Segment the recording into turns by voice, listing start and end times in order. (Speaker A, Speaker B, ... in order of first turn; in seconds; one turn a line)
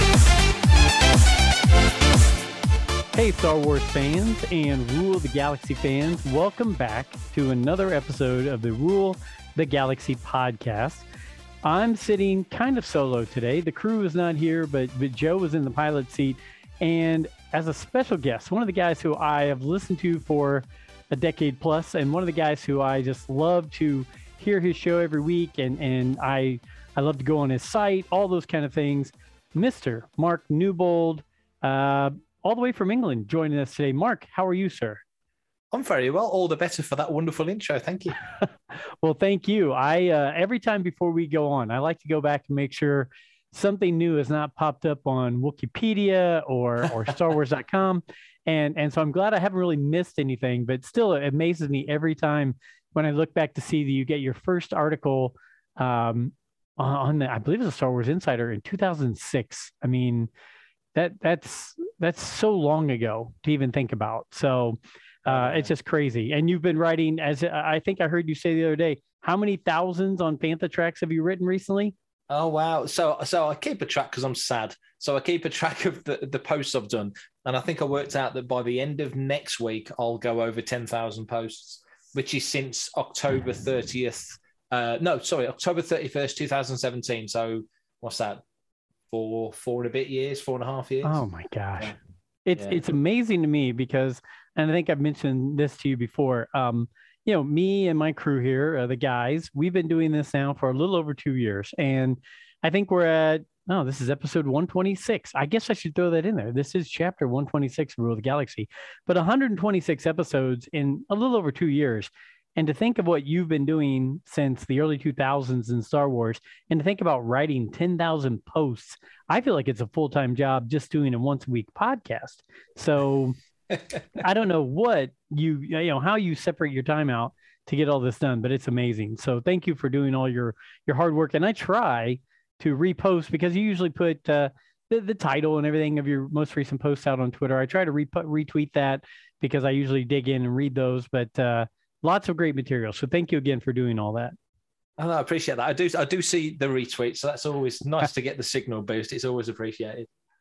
Speaker A: 3.1-11.0
Speaker A: 11.6-35.0
Speaker B: 35.7-38.2
Speaker A: 39.0-60.3
Speaker A: 60.9-71.9
Speaker B: 65.3-65.7
Speaker B: 72.3-88.4
Speaker B: 89.1-91.2
Speaker A: 91.0-123.3
Speaker B: 92.5-92.8
Speaker A: 124.2-144.3
Speaker B: 145.0-150.1